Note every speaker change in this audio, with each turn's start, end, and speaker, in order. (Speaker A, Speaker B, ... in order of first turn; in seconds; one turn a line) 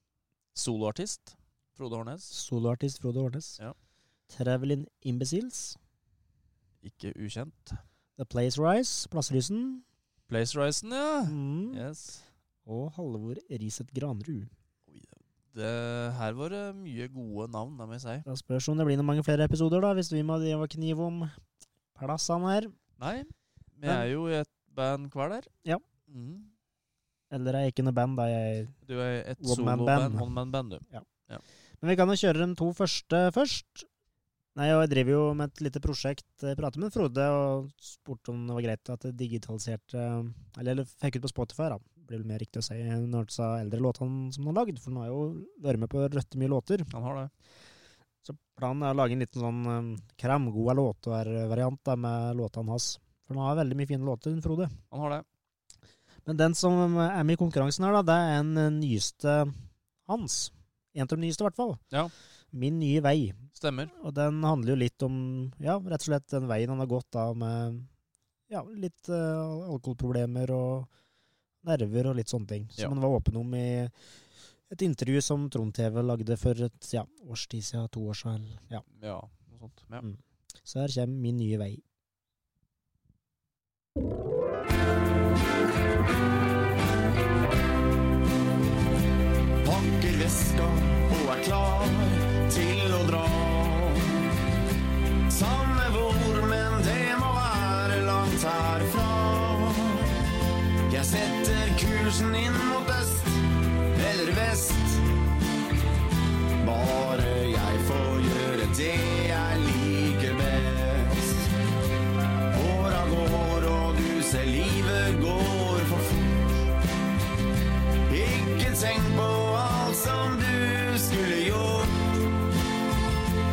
Speaker A: 0.6-2.4
Speaker B: 2.3-3.6
Speaker B: 4.3-5.8
Speaker A: 6.8-7.8
Speaker B: 8.2-9.8
Speaker A: 10.3-12.2
Speaker B: 11.3-11.8
Speaker B: 12.7-14.5
Speaker A: 14.9-18.3
Speaker B: 18.3-21.4
Speaker B: 21.9-22.8
Speaker A: 23.0-25.5
Speaker A: 26.1-26.5
Speaker B: 27.3-28.8
Speaker A: 28.9-31.4
Speaker B: 29.4-30.3
Speaker B: 31.8-33.9
Speaker B: 34.5-46.9
Speaker A: 46.9-47.3
Speaker B: 48.2-54.8
Speaker A: 54.9-55.2
Speaker B: 56.3-59.5
Speaker B: 60.1-61.8
Speaker B: 62.5-63.4
Speaker A: 63.6-63.9
Speaker B: 63.9-67.9
Speaker B: 68.5-70.9
Speaker B: 71.6-73.9
Speaker B: 74.7-78.8
Speaker A: 78.9-80.0
Speaker B: 80.0-81.8
Speaker C: 89.6-94.2
Speaker C: 95.3-100.1
Speaker C: 100.9-105.0
Speaker C: 106.6-111.5
Speaker C: 112.5-116.6
Speaker C: 118.1-122.1